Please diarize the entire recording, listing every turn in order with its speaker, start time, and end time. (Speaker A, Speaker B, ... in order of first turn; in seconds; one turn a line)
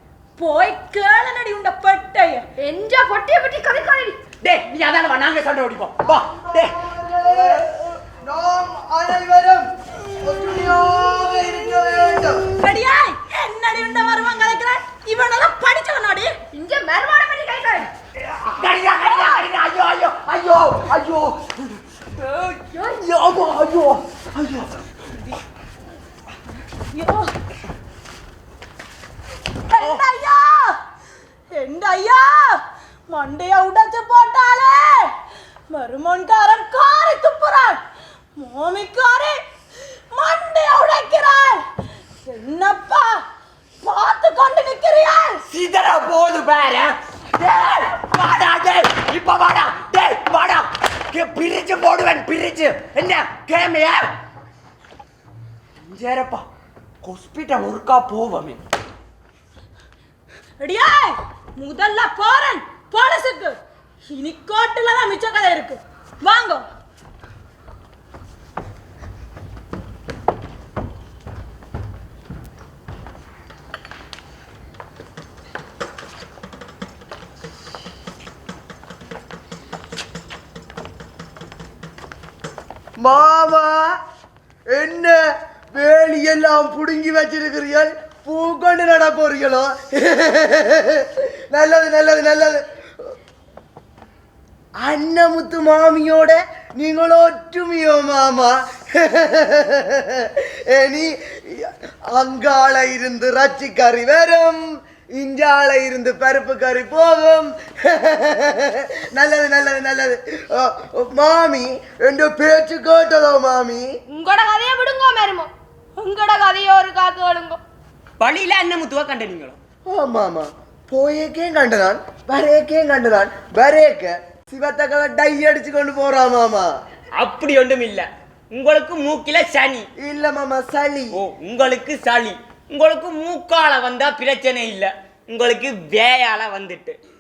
Speaker A: 0.4-2.5
Speaker B: 2.6-4.2
Speaker C: 4.4-6.8
Speaker D: 6.2-12.5
Speaker A: 12.6-16.4
Speaker B: 16.5-17.9
Speaker C: 18.2-24.7
Speaker B: 19.0-19.4
Speaker B: 22.7-23.0
Speaker A: 26.9-27.3
Speaker A: 29.7-30.8
Speaker A: 31.5-35.1
Speaker A: 35.7-37.8
Speaker A: 38.4-39.4
Speaker A: 40.1-41.6
Speaker A: 42.2-43.2
Speaker A: 43.8-45.4
Speaker C: 45.5-54.1
Speaker C: 55.8-56.5
Speaker C: 57.0-58.6
Speaker A: 60.6-66.6
Speaker D: 83.0-83.9
Speaker D: 84.7-85.2
Speaker D: 85.7-92.6
Speaker D: 94.8-104.6
Speaker D: 105.2-113.9
Speaker B: 114.1-117.6
Speaker E: 118.2-119.6
Speaker D: 119.9-126.7
Speaker E: 127.2-129.9
Speaker D: 130.0-131.1
Speaker E: 131.1-137.0